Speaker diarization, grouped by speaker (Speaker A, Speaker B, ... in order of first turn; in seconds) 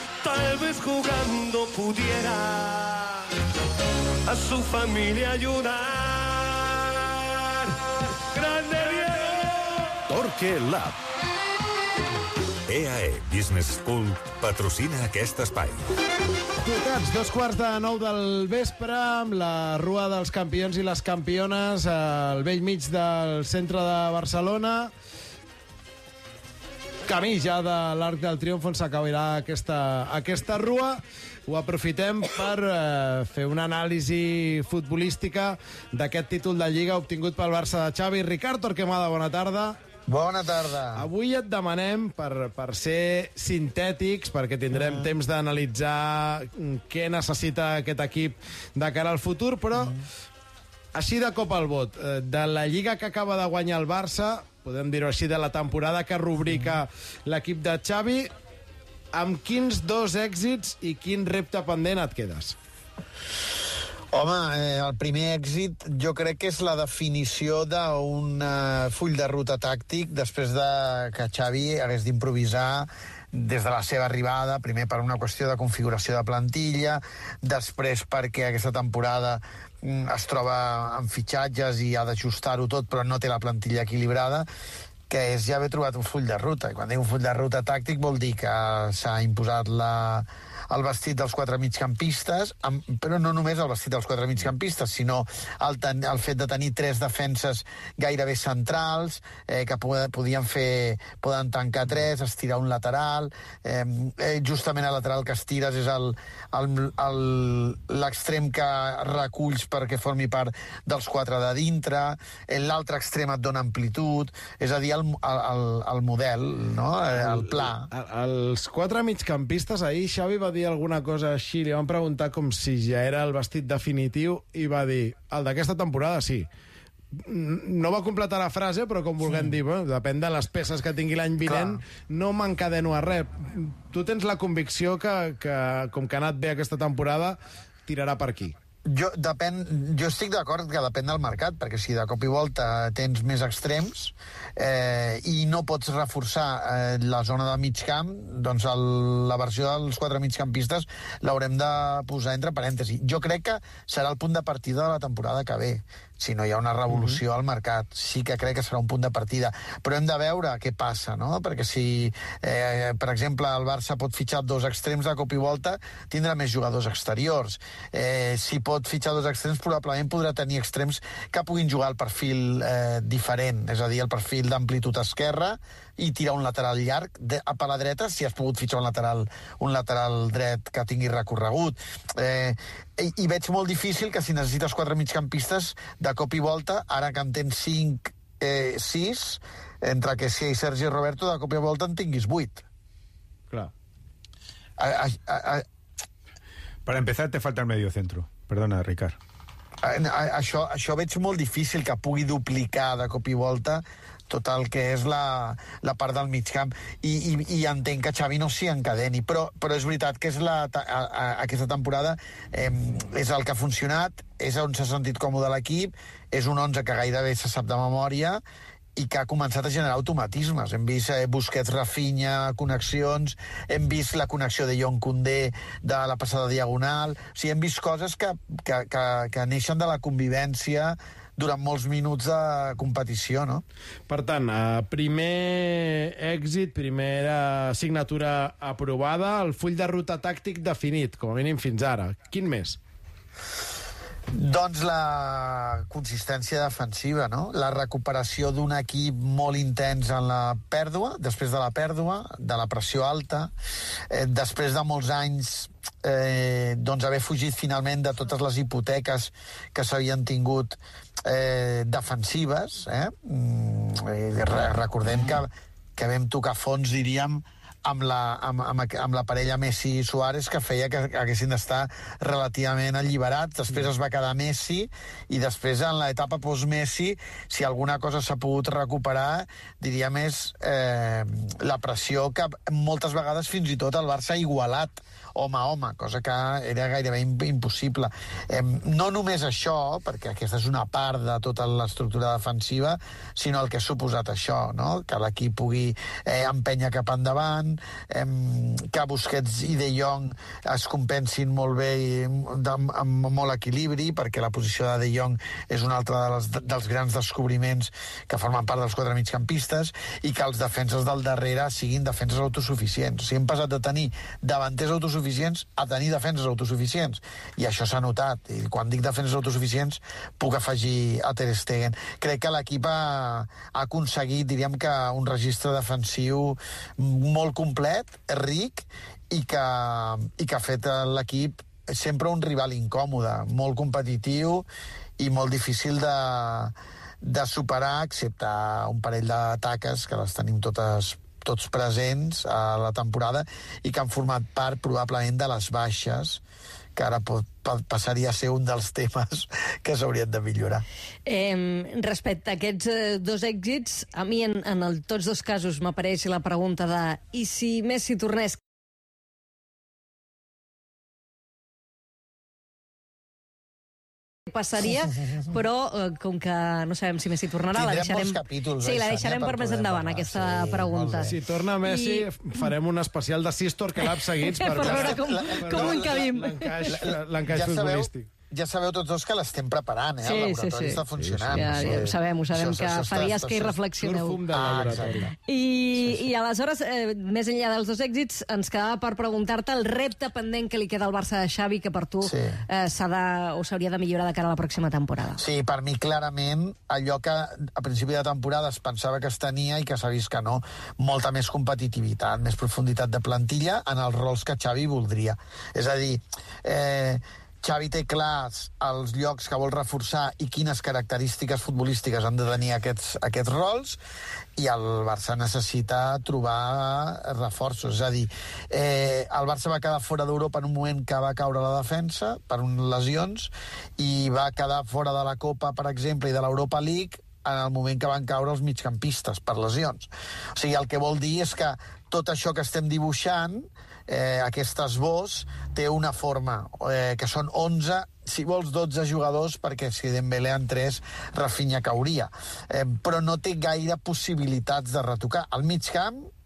Speaker A: 0.2-3.2, 4.2-9.9
Speaker B: 10.1-11.0, 12.7-15.9
Speaker C: 16.6-24.9, 27.1-39.8, 41.0-49.9, 51.0-58.3, 59.1-62.6, 117.2-126.5, 127.1-138.5, 156.9-157.2, 234.1-242.8, 371.3-378.3, 381.2-381.6, 384.0-385.3
Speaker D: 40.1-41.1, 44.7-45.1, 49.7-50.0, 64.1-84.5, 85.1-117.9, 129.2-129.6, 131.4-131.8, 138.8-192.6, 194.8-195.6, 199.8-218.4, 218.9-233.6, 244.3-253.5, 254.1-334.6, 335.2-346.4, 346.9-350.8, 367.7-371.4, 374.8-376.3, 376.9-383.8, 384.5-385.3, 392.2-392.6, 395.4-414.0, 414.6-446.3
Speaker E: 196.8-199.2
Speaker F: 351.2-358.6, 364.5-372.7, 374.0-376.8, 380.2-384.4, 385.4-395.4